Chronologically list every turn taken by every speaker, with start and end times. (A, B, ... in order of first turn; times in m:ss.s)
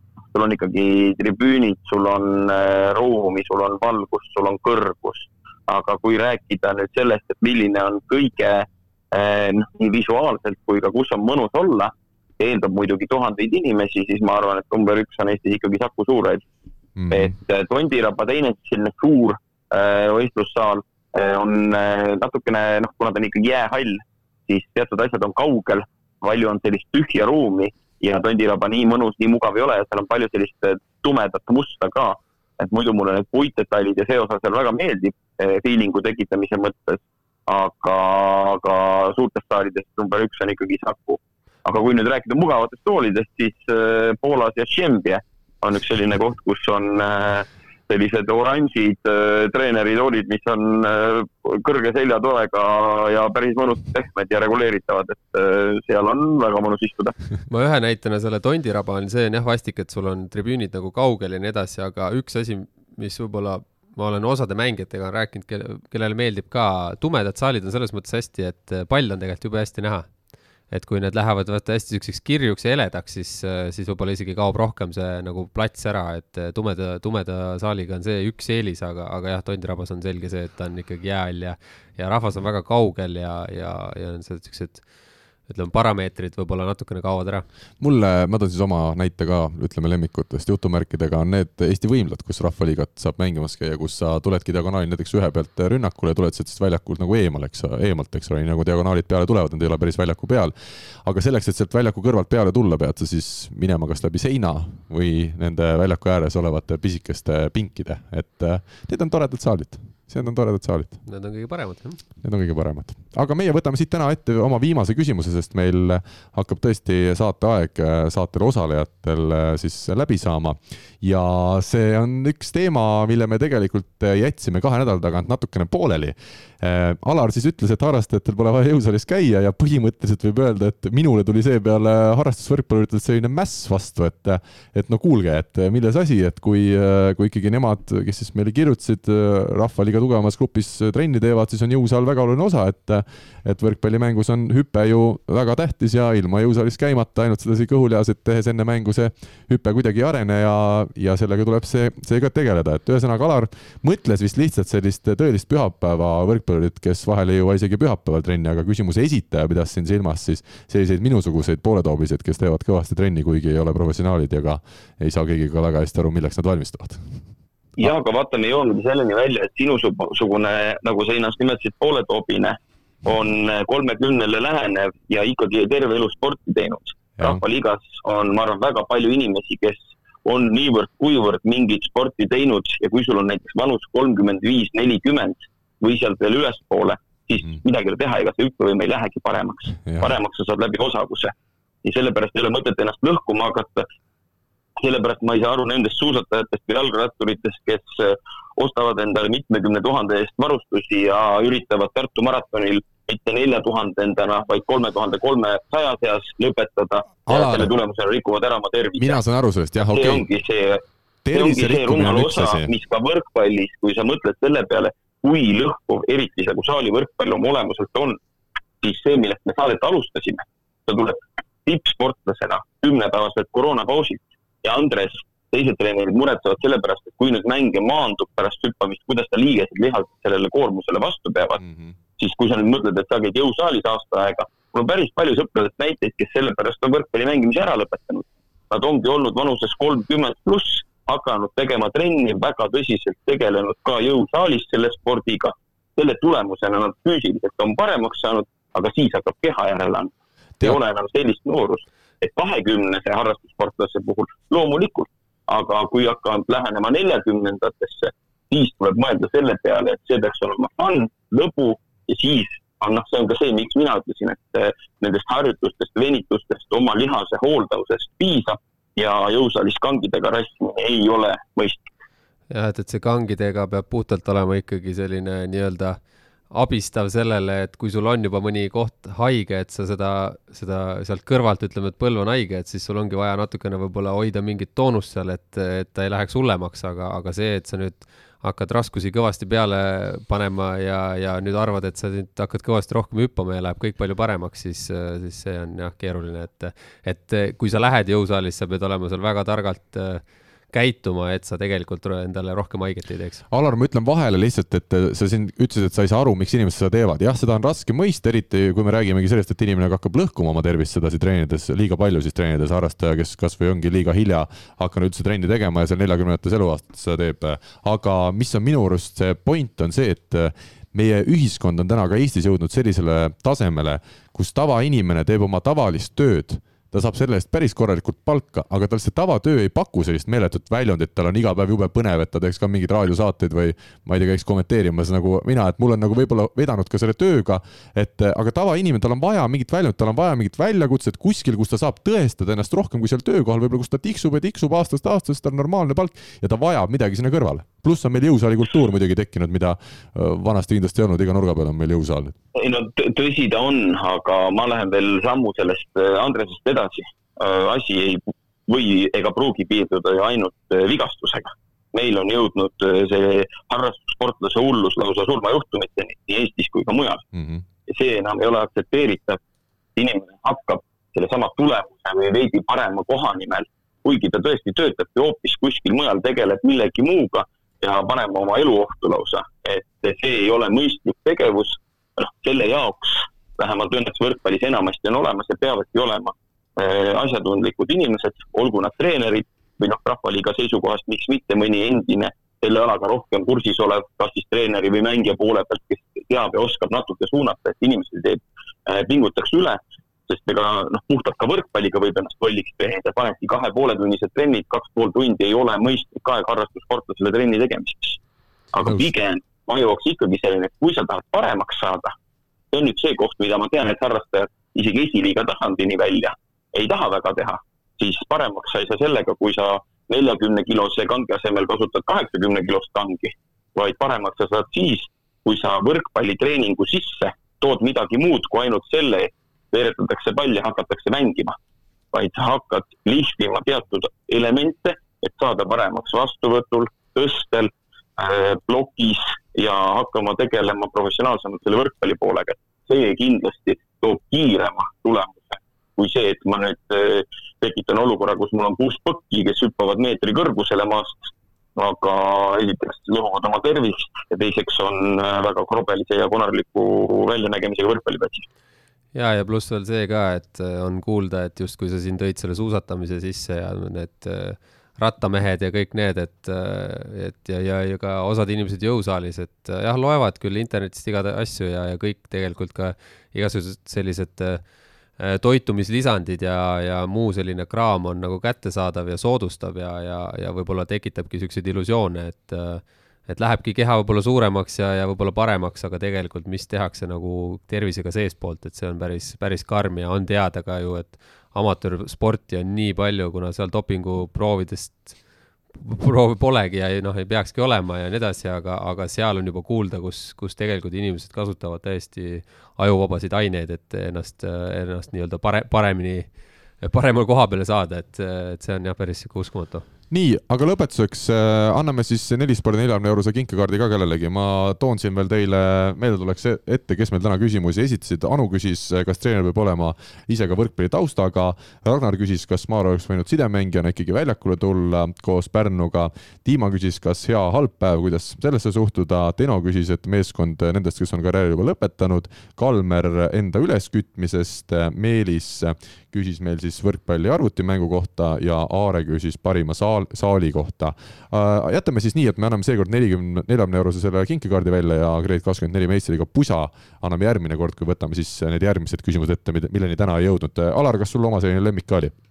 0:00.3-0:16.4 A
0:17.0-0:17.3 B
0:17.1-0:57.2 A
0:57.5-1:10.2 C
1:10.7-1:24.9 C
1:25.5-1:27.5 C
1:27.8-1:51.0 B
1:51.1-1:52.0 C
1:52.2-2:47.2 B
2:47.8-3:13.9 A
3:09.8-3:10.2 B
3:14.8-3:29.2 A
3:27.3-3:27.7 B
3:29.0-3:30.3 B
3:29.9-3:30.8 A
3:31.2-3:32.7 B
3:31.3-3:38.2 A
3:38.8-3:51.6 A
3:51.6-3:52.0 B
3:52.2-4:31.9 A
4:32.5-5:03.4 C
5:03.5-5:52.4 B
5:52.6-6:07.2 A
6:07.3-6:07.6 B
6:07.9-6:09.4 A
6:10.0-6:48.2 A
6:48.7-6:52.1 A
6:48.8-6:49.1 B
6:52.7-7:11.6 A
7:12.1-7:38.5 A
7:39.1-8:15.2 C
8:15.7-8:29.8 C
8:30.1-9:12.1 B